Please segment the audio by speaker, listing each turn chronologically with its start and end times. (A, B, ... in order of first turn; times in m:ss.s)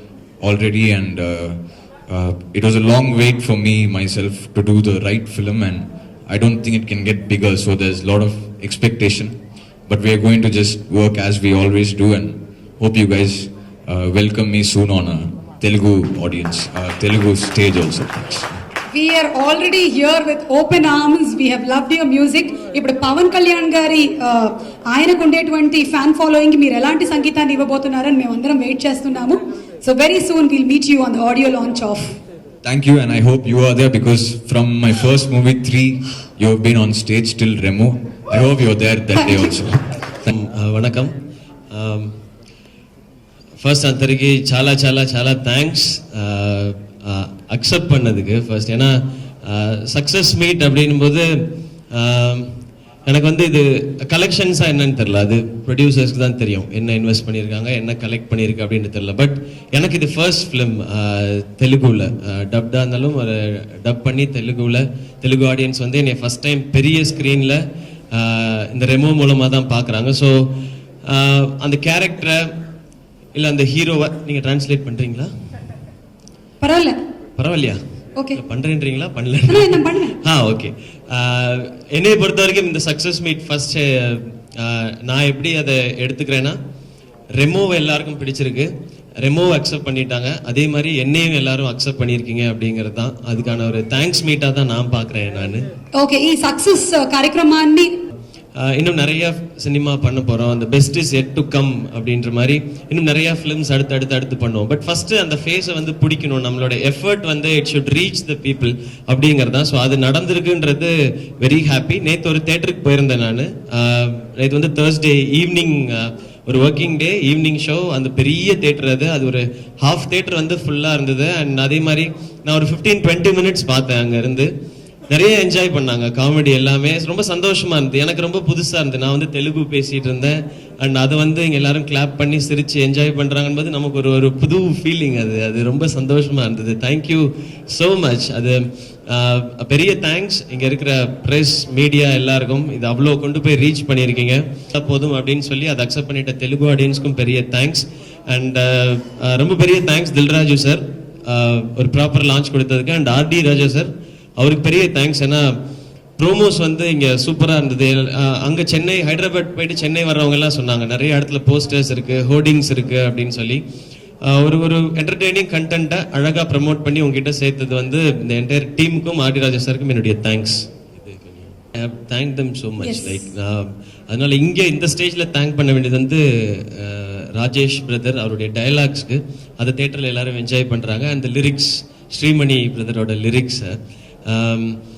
0:00.4-0:09.4 A
0:09.9-0:18.5 A
0:18.9-0:32.2 B
0:32.6-0:39.8 A
0:39.2-0:39.5 B
0:40.3-0:41.1 C
0:41.7-0:42.1 C
0:43.6-0:48.9 C
0:49.4-0:51.3 C
0:51.9-0:52.5 C
0:53.0-1:07.6 C
1:08.1-1:10.4 C
1:11.1-1:12.4 C
1:13.4-1:15.3 C
1:16.6-1:17.0 B
1:17.4-1:17.8 C
1:18.3-1:26.6 C
1:19.5-1:20.2 B
1:27.4-1:28.7 C
1:29.2-1:35.6 C
1:36.0-1:37.9 B
1:38.6-2:04.5 C
2:05.1-2:35.5 C
2:36.2-2:43.6 C
2:44.3-3:03.8 C
2:52.8-2:53.2 B
3:04.3-3:04.8 C